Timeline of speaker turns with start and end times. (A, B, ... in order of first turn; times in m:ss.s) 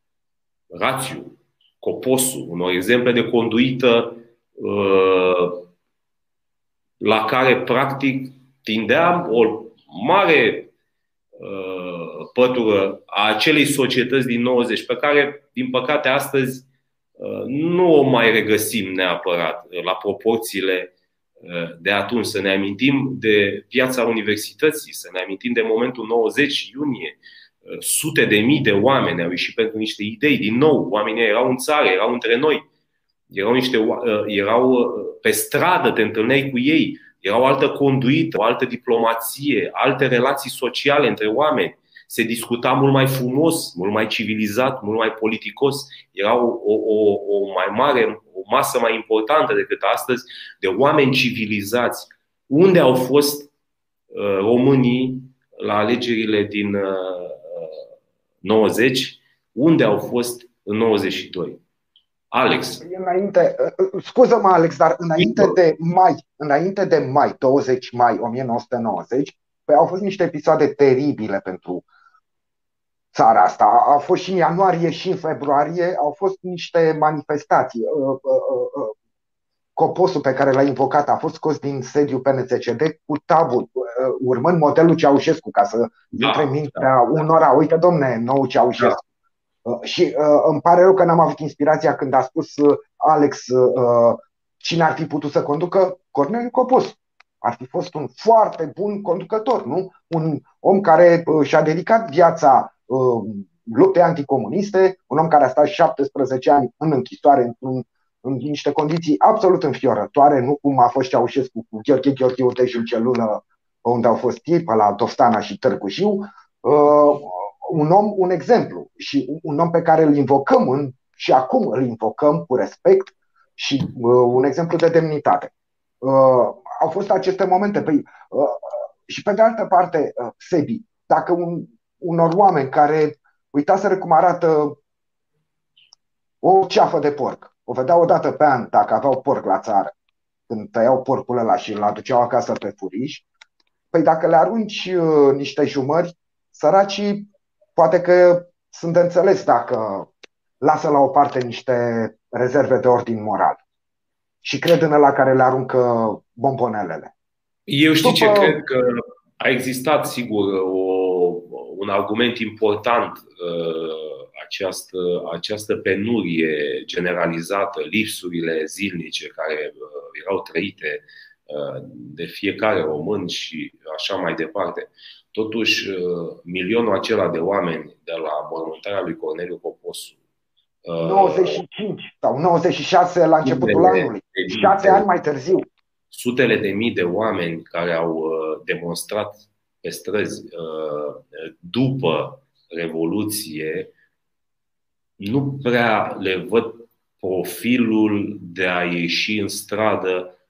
0:00.7-0:05.7 A
0:07.0-0:10.7 A
0:11.4-0:16.6 A
0:17.2-0:32.6 A
0:33.3-0:53.5 A
0:54.1-0:57.8 A
0:58.4-1:01.6 A
1:02.3-1:02.8 A
1:02.8-1:11.8 B
1:05.2-1:05.6 A
1:13.1-1:18.9 B
1:19.8-1:29.0 B
1:26.1-1:27.0 A
1:29.6-2:14.8 B
2:16.4-2:19.9 B
2:20.5-2:23.2 B
2:23.9-2:30.1 B
2:30.6-2:33.6 B
2:34.4-2:37.1 B
2:37.7-3:00.2 A
2:38.0-2:38.6 B
3:00.8-3:01.6 A
3:01.0-3:05.7 B
3:03.4-3:05.0 A
3:06.1-3:13.9 A
3:15.2-3:20.3 A